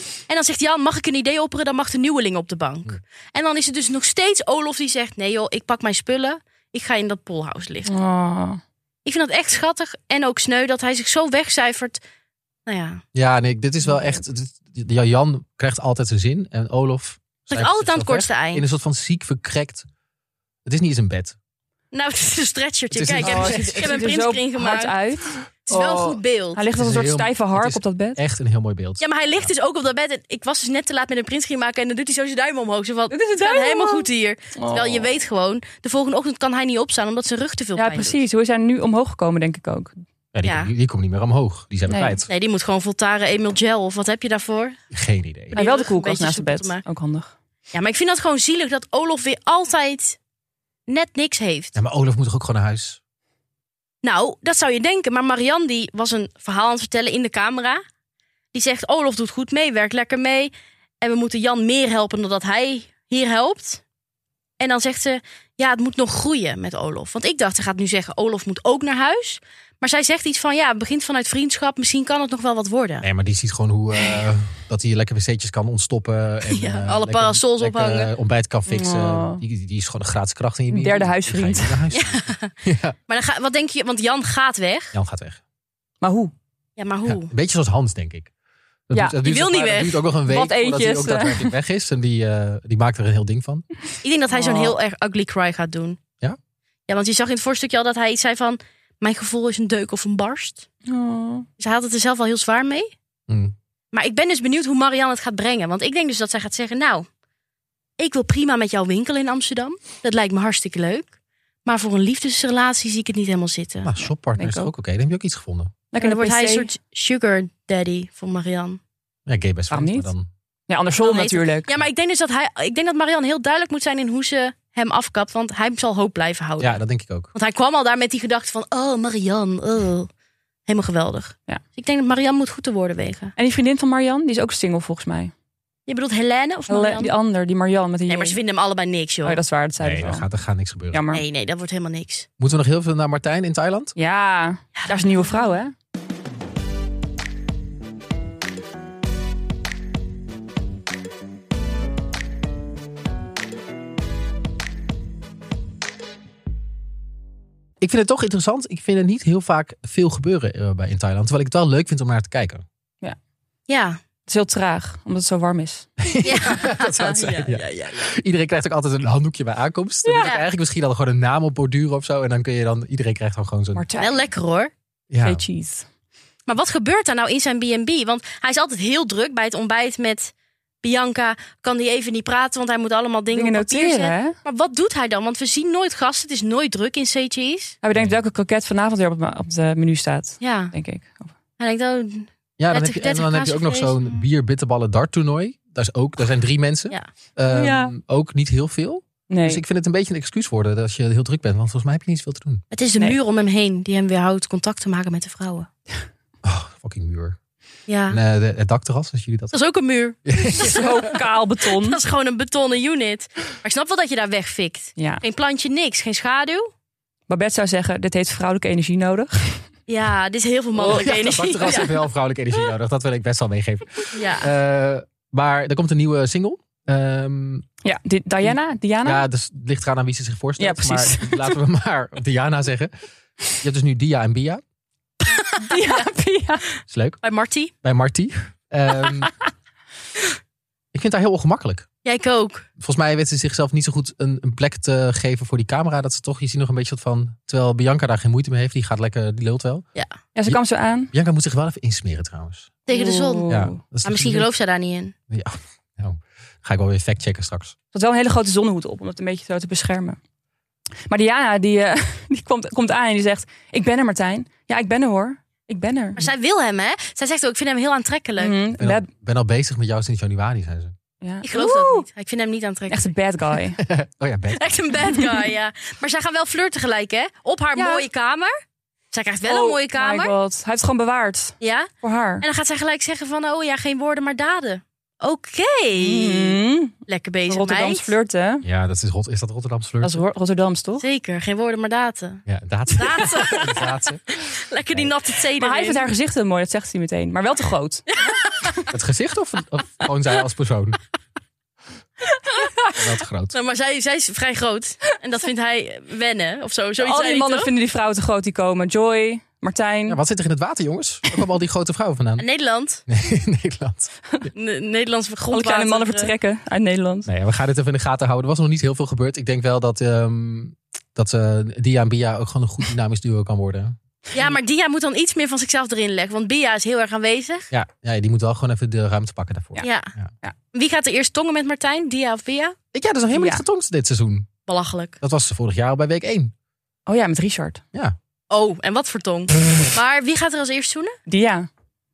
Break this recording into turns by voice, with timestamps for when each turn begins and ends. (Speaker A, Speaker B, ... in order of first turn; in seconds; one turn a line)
Speaker A: 0.3-7.9
Speaker B: 7.8-8.6
Speaker A: 9.0-12.0
Speaker A: 12.7-13.0
Speaker C: 13.1-19.9
Speaker A: 17.5-18.6
Speaker C: 20.6-21.4
Speaker A: 21.9-25.0
Speaker C: 22.9-23.9
Speaker B: 23.1-28.2
Speaker A: 25.7-26.6
Speaker C: 26.7-29.5
Speaker A: 29.0-38.1
Speaker B: 33.1-35.1
Speaker B: 37.8-40.0
Speaker C: 40.3-42.3
Speaker A: 40.4-40.7
Speaker B: 41.9-42.2
Speaker A: 42.3-44.8
Speaker C: 44.9-45.6
Speaker A: 45.5-46.8
Speaker B: 45.5-47.3
Speaker A: 47.7-50.2
Speaker A: 50.9-51.8
Speaker C: 51.7-53.0
Speaker A: 54.0-57.8
Speaker A: 58.5-63.8
Speaker A: 64.6-73.1
Speaker C: 73.0-83.0
Speaker A: 76.5-78.1
Speaker B: 78.7-79.4
Speaker B: 80.7-81.8
Speaker A: 81.9-82.5
Speaker A: 83.1-84.9
Speaker C: 84.9-85.4
Speaker B: 86.0-86.3
Speaker A: 86.8-87.3
Speaker C: 87.0-88.3
Speaker C: 88.9-93.7
Speaker A: 89.2-90.0
Speaker B: 90.3-91.5
Speaker A: 94.0-96.0
Speaker B: 94.3-94.7
Speaker A: 96.9-100.7
Speaker B: 100.9-101.5
Speaker A: 101.6-102.9
Speaker C: 103.3-103.5
Speaker A: 103.9-107.0
Speaker A: 108.0-111.1
Speaker A: 111.6-113.9
Speaker C: 113.8-115.7
Speaker B: 114.3-114.7
Speaker B: 115.9-116.7
Speaker A: 116.0-118.8
Speaker C: 119.2-120.3
Speaker B: 119.7-120.1
Speaker B: 120.7-121.7
Speaker A: 121.0-126.8
Speaker C: 126.6-127.3
Speaker A: 127.3-130.1
Speaker A: 130.7-133.3
Speaker B: 133.3-135.3
Speaker A: 135.9-137.1
Speaker B: 136.7-138.4
Speaker A: 138.1-139.4
Speaker B: 139.2-140.2
Speaker C: 139.8-141.0
Speaker B: 140.9-141.2
Speaker A: 141.1-142.3
Speaker C: 142.4-143.9
Speaker B: 143.9-145.7
Speaker A: 144.8-145.4
Speaker C: 157.8-162.6
Speaker A: 163.7-164.0
Speaker B: 164.3-165.9
Speaker C: 166.0-173.8
Speaker A: 166.2-168.1
Speaker B: 170.0-170.3
Speaker B: 173.7-174.3
Speaker A: 174.0-174.7
Speaker C: 175.1-175.4
Speaker B: 175.2-175.9
Speaker A: 176.5-187.8
Speaker B: 183.3-184.3
Speaker B: 187.8-191.3
Speaker A: 190.4-190.7
Speaker A: 191.6-194.2
Speaker C: 192.6-202.6
Speaker B: 197.5-197.9
Speaker B: 199.3-199.6
Speaker A: 202.7-205.7
Speaker C: 206.4-207.4
Speaker A: 207.9-208.2
Speaker C: 208.1-209.5
Speaker A: 209.5-210.8
Speaker C: 210.2-211.1
Speaker B: 210.5-212.0
Speaker A: 211.7-216.7
Speaker B: 215.0-215.2
Speaker B: 217.3-219.7
Speaker A: 219.9-222.0
Speaker C: 220.8-227.7
Speaker A: 224.1-224.5
Speaker B: 227.8-229.2
Speaker C: 229.0-232.9
Speaker B: 230.6-231.6
Speaker C: 233.6-234.6
Speaker A: 235.3-236.0
Speaker B: 235.6-236.6
Speaker C: 236.9-237.2
Speaker A: 237.2-237.7
Speaker C: 237.8-239.3
Speaker C: 240.9-241.9
Speaker A: 242.0-242.7
Speaker C: 242.8-249.8
Speaker B: 250.3-251.1
Speaker C: 251.1-252.7
Speaker A: 252.9-255.1
Speaker B: 252.9-253.8
Speaker C: 253.5-254.5
Speaker C: 255.3-257.7
Speaker B: 257.9-260.2
Speaker B: 261.1-266.2
Speaker A: 266.1-268.6
Speaker B: 268.4-269.1
Speaker C: 268.8-270.9
Speaker B: 271.2-272.1
Speaker A: 271.4-273.1
Speaker B: 272.9-273.8
Speaker C: 273.8-274.9
Speaker A: 274.5-278.5
Speaker B: 275.1-275.4
Speaker B: 277.7-278.1
Speaker A: 279.1-280.3
Speaker B: 279.4-282.4
Speaker A: 281.6-281.9
Speaker A: 282.4-288.1
Speaker B: 286.0-286.9
Speaker B: 287.5-288.6
Speaker C: 288.6-290.2
Speaker B: 290.0-291.0
Speaker A: 291.0-292.4
Speaker C: 292.5-295.1
Speaker A: 292.9-296.1
Speaker B: 293.2-293.6
Speaker B: 295.6-298.1
Speaker A: 298.1-298.9
Speaker C: 298.9-301.0
Speaker A: 302.5-303.0
Speaker C: 302.9-303.5
Speaker A: 303.5-307.7
Speaker B: 307.0-310.2
Speaker C: 310.1-312.4
Speaker A: 312.4-313.0
Speaker C: 313.1-314.1
Speaker A: 314.5-316.3
Speaker B: 315.5-317.3
Speaker C: 317.2-323.9
Speaker A: 324.3-327.7
Speaker C: 327.7-330.3
Speaker A: 329.8-330.1
Speaker A: 330.7-332.8
Speaker C: 332.9-334.5
Speaker B: 333.3-333.6
Speaker A: 334.7-335.1
Speaker C: 335.2-336.5
Speaker B: 337.1-337.8
Speaker A: 338.5-341.2
Speaker B: 341.3-341.7